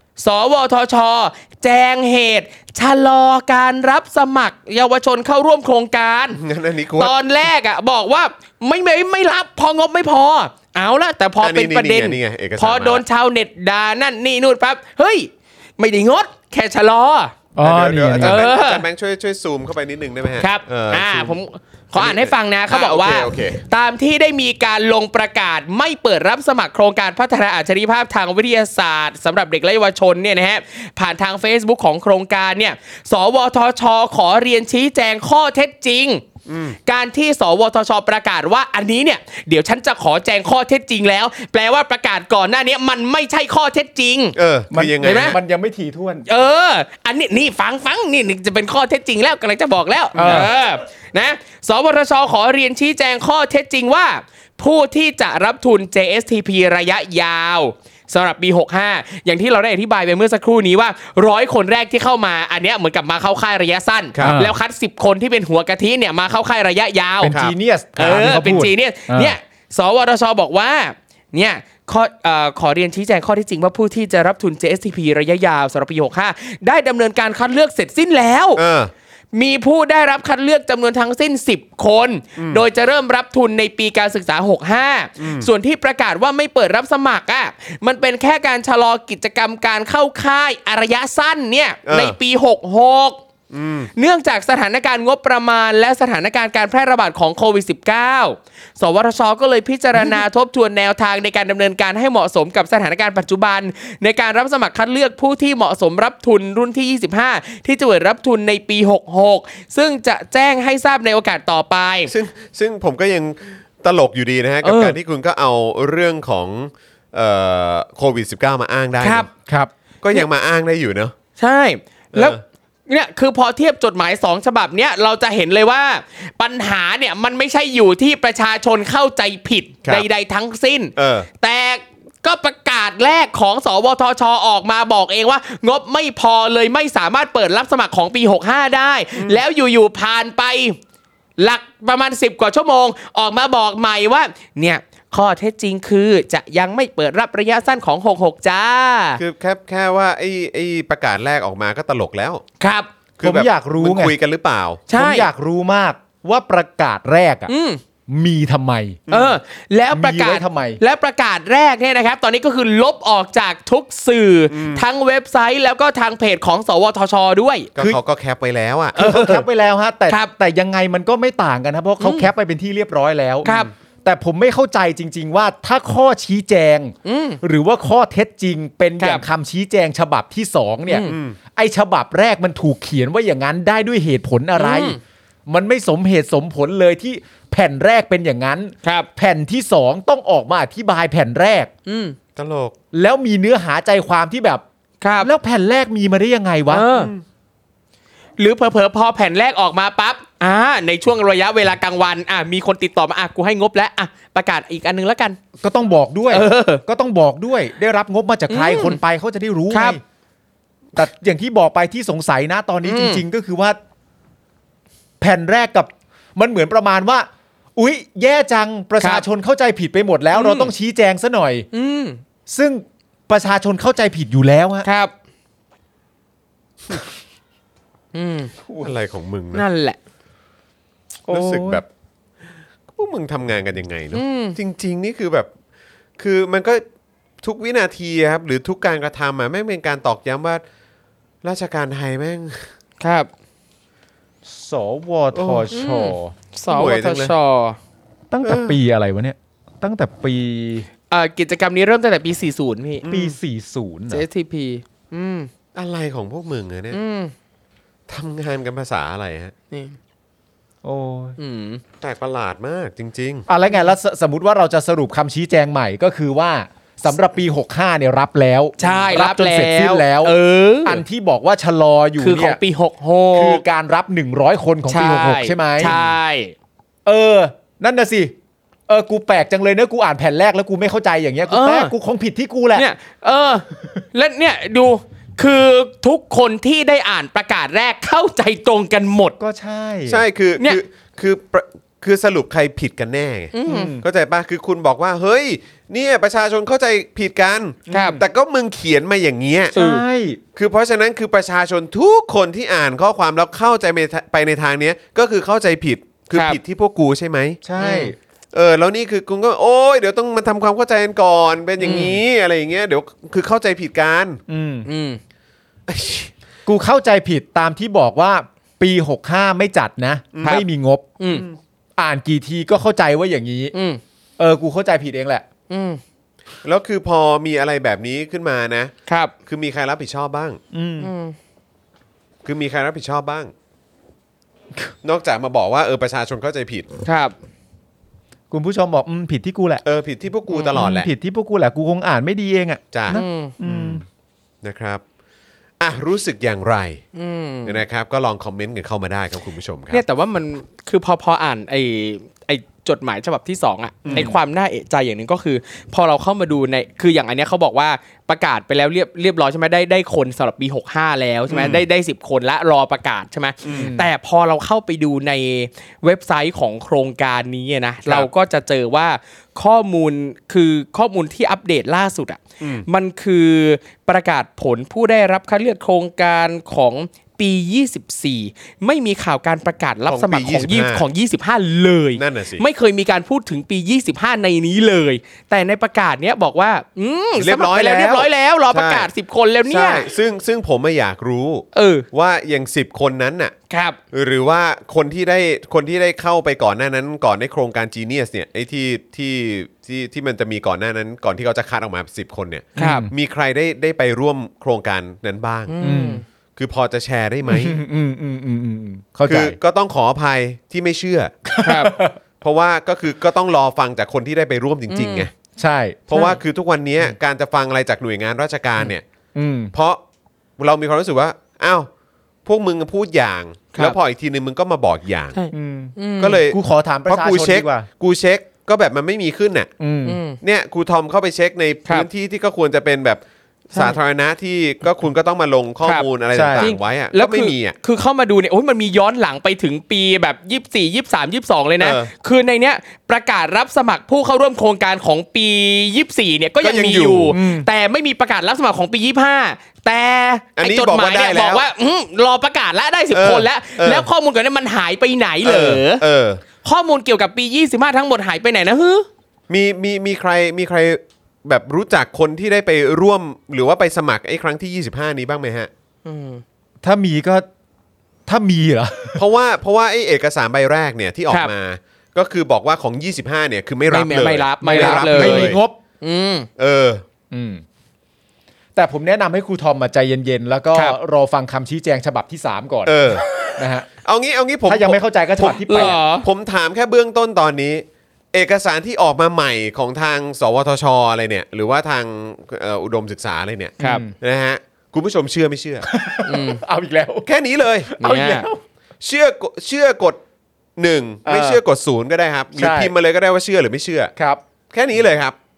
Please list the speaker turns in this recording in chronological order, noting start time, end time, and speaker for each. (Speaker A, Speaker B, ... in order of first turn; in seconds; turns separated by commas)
Speaker A: 0.2-6.4, Speaker B: 6.3-7.1, Speaker A: 7.0-17.3, Speaker B: 11.4-13.0, Speaker C: 17.5-18.5, Speaker B: 17.6-21.4, Speaker A: 18.2-18.8, Speaker A: 20.4-36.2, Speaker B: 21.9-23.6, Speaker B: 36.5-36.8, Speaker A: 36.9-44.4, Speaker B: 44.3-45.4, Speaker C: 44.7-46.3, Speaker A: 45.0-45.4, Speaker A: 46.3-67.3, Speaker B: 50.1-50.5, Speaker C: 50.1-50.5, Speaker C: 64.2-64.6, Speaker C: 67.2-69.3, Speaker B: 67.3-67.5, Speaker A: 68.0-78.6, Speaker B: 78.5-78.9, Speaker A: 79.3-93.2, Speaker B: 85.2-85.5, Speaker B: 91.8-92.2, Speaker B: 93.5-93.9, Speaker A: 94.0-112.1, Speaker B: 112.1-119.3, Speaker A: 114.6-115.0, Speaker A: 119.0-119.3, Speaker B: 120.0-121.1, Speaker A: 121.4-140.8, Speaker B: 122.1-122.4, Speaker B: 130.9-131.3, Speaker A: 141.4-149.2, Speaker B: 149.2-152.4, Speaker A: 152.6-152.9, Speaker B: 153.2-154.8, Speaker C: 153.2-154.1, Speaker A: 154.9-155.3, Speaker C: 154.9-157.5, Speaker A: 157.5-157.8, Speaker C: 158.1-159.0, Speaker B: 159.1-159.4, Speaker A: 159.1-167.7, Speaker C: 159.9-160.8, Speaker B: 164.5-164.8, Speaker B: 167.8-169.0, Speaker C: 168.9-173.5, Speaker A: 169.0-169.4, Speaker A: 172.0-172.3, Speaker A: 173.4-173.7, Speaker C: 174.0-191.7, Speaker A: 177.0-177.4, Speaker A: 179.0-179.2, Speaker A: 180.9-181.2, Speaker B: 181.1-181.4, Speaker A: 184.6-185.0, Speaker A: 191.9-192.2, Speaker B: 192.3-192.7, Speaker C: 192.9-194.6, Speaker A: 195.0-195.3, Speaker C: 195.2-196.9, Speaker A: 196.7-197.1, Speaker B: 196.9-197.2, Speaker A: 198.4-205.4, Speaker C: 205.6-210.0, Speaker A: 206.3-206.8, Speaker A: 208.5-209.0, Speaker A: 209.7-210.0, Speaker C: 210.9-213.8, Speaker A: 212.8-213.2, Speaker C: 215.2-221.7, Speaker A: 219.0-219.2, Speaker A: 220.3-220.7, Speaker A: 221.7-222.2, Speaker C: 222.5-224.8, Speaker A: 224.8-225.1, Speaker A: 228.1-228.5, Speaker B: 228.8-229.6, Speaker A: 229.5-230.0, Speaker C: 231.3-231.8, Speaker B: 231.3-231.8, Speaker B: 232.9-235.5, Speaker A: 234.1-234.6, Speaker B: 236.2-236.8, Speaker B: 237.4-240.6, Speaker B: 241.4-242.7, Speaker A: 243.0-243.3, Speaker C: 244.4-246.3, Speaker B: 245.3-245.7, Speaker A: 245.7-247.8, Speaker B: 246.7-247.3, Speaker C: 248.3-250.9, Speaker B: 248.4-248.8, Speaker A: 251.1-253.0, Speaker B: 253.0-253.3, Speaker C: 253.0-254.2, Speaker A: 254.1-255.5, Speaker B: 255.7-257.0, Speaker A: 256.9-257.3, Speaker B: 258.1-259.5, Speaker A: 259.7-260.0, Speaker C: 260.8-261.4, Speaker A: 261.4-261.8, Speaker B: 262.0-263.5, Speaker C: 263.5-272.6, Speaker A: 268.8-271.0, Speaker A: 272.2-273.6, Speaker C: 273.3-275.9, Speaker A: 274.9-276.5, Speaker C: 277.1-278.3, Speaker C: 278.9-282.9, Speaker A: 281.5-281.9, Speaker A: 282.7-289.3, Speaker C: 289.4-290.2, Speaker B: 290.1-299.7, Speaker A: 293.5-293.9, Speaker C: 293.6-294.0, Speaker C: 297.9-298.2, Speaker A: 297.9-298.2, Speaker A: 299.7-300.0, Speaker C: 299.7-300.4, Speaker B: 300.5-307.6, Speaker A: 306.3-306.6, Speaker C: 307.6-308.1, Speaker A: 307.8-308.1, Speaker B: 308.5-314.4, Speaker A: 311.8-312.2, Speaker C: 314.5-314.9, Speaker A: 314.8-315.2, Speaker B: 315.9-316.3, Speaker C: 316.6-321.1, Speaker B: 320.3-320.6, Speaker A: 321.2-321.4, Speaker B: 321.3-321.6, Speaker C: 322.0-323.7, Speaker A: 323.7-324.0, Speaker C: 324.4-325.4, Speaker A: 325.7-326.0, Speaker B: 326.6-328.9, Speaker A: 329.1-329.3, Speaker B: 329.4-330.6, Speaker C: 330.7-331.1, Speaker A: 331.0-331.3, Speaker B: 332.4-333.5, Speaker B: 335.0-336.9, Speaker A: 337.0-337.3, Speaker C: 338.5-339.8, Speaker B: 339.8-341.1, Speaker C: 340.7-344.0, Speaker B: 342.9-344.0, Speaker A: 343.1-343.5, Speaker B: 344.6-345.0, Speaker B: 345.8-347.0, Speaker A: 347.1-347.8, Speaker B: 347.6-350.0, Speaker A: 349.9-390.1, Speaker B: 354.0-354.3, Speaker B: 361.5-361.8, Speaker B: 363.6-363.9, Speaker C: 363.7-364.1, Speaker B: 372.6-372.9, Speaker B: 380.1-381.0, Speaker B: 382.2-382.6, Speaker B: 387.4-389.1, Speaker B: 389.7-393.5, Speaker A: 391.7-392.0, Speaker A: 393.7-394.0, Speaker B: 394.1-405.7, Speaker C: 402.8-403.1, Speaker A: 402.8-403.1, Speaker A: 405.7-406.2, Speaker C: 405.8-406.2, Speaker B: 406.6-407.8, Speaker C: 407.4-409.6, Speaker B: 409.2-411.3, Speaker C: 411.5-412.2, Speaker A: 411.6-411.9, Speaker B: 412.4-415.3, Speaker A: 414.9-415.3, Speaker C: 415.6-416.3, Speaker B: 416.1-419.0, Speaker C: 419.3-419.7, Speaker B: 419.7-420.0, Speaker B: 420.6-421.9, Speaker B: 422.4-425.4, Speaker A: 425.3-426.4, Speaker C: 425.5-425.9, Speaker B: 426.2-429.7, Speaker C: 426.5-427.9, Speaker C: 429.8-430.2, Speaker A: 430.1-430.4, Speaker B: 430.4-437.8, Speaker A: 435.8-456.0, Speaker C: 436.3-436.7, Speaker B: 441.8-442.1, Speaker B: 446.6-447.4, Speaker C: 447.3-447.7, Speaker B: 450.6-451.6, Speaker B: 453.1-454.1, Speaker B: 455.4-456.4, Speaker A: 456.6-459.1, Speaker B: 459.5-465.7, Speaker A: 466.0-466.4, Speaker C: 466.8-467.4, Speaker C: 468.2-469.2, Speaker B: 469.1-475.6, Speaker A: 473.9-476.5, Speaker C: 474.6-475.8, Speaker B: 476.6-477.0, Speaker C: 477.3-477.6, Speaker C: 478.7-483.0, Speaker B: 482.8-483.2, Speaker C: 483.6-483.9, Speaker B: 484.0-495.9, Speaker C: 484.6-486.0, Speaker A: 485.6-486.3, Speaker C: 493.8-494.1, Speaker C: 495.8-497.3, Speaker A: 496.2-496.6, Speaker B: 497.2-497.9, Speaker C: 497.9-498.6, Speaker A: 498.0-498.5, Speaker B: 499.0-500.2, Speaker B: 500.8-504.1, Speaker C: 501.2-501.6, Speaker C: 502.5-502.9, Speaker C: 504.1-504.4, Speaker B: 504.7-505.4